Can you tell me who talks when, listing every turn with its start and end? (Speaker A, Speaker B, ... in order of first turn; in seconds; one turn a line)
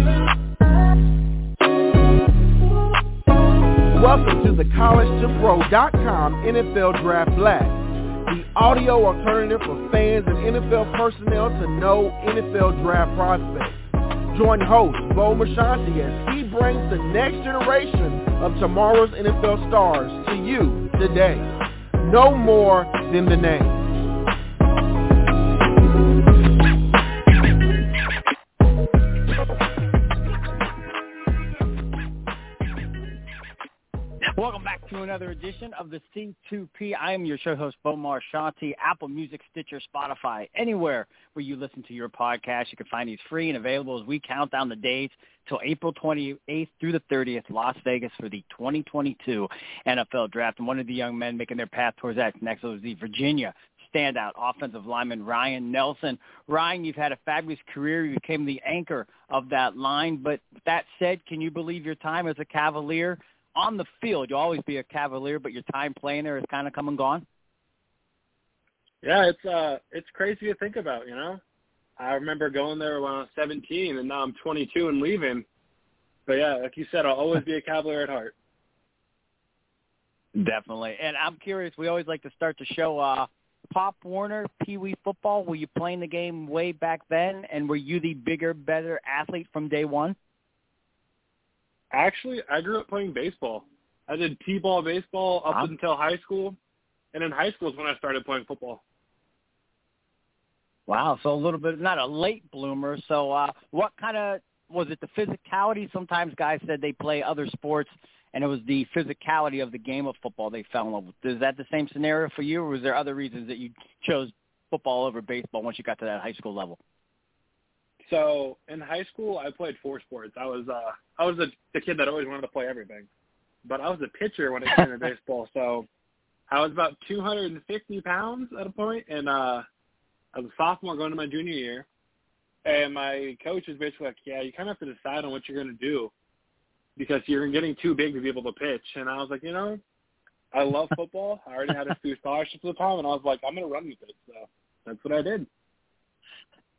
Speaker A: 3.9-13.8
Speaker A: 14.3-21.4
Speaker A: 22.0-23.8
Speaker B: 34.3-67.2
Speaker C: 69.0-71.4
Speaker C: 72.0-75.4
Speaker C: 76.3-78.3
Speaker B: 80.3-90.2
Speaker C: 91.9-96.6
Speaker C: 97.1-98.8
Speaker B: 100.9-116.8
Speaker C: 118.0-123.1
Speaker C: 123.6-125.8
Speaker C: 126.5-129.6
Speaker C: 130.3-131.8
Speaker C: 132.6-136.1
Speaker C: 137.0-139.8
Speaker C: 140.5-145.5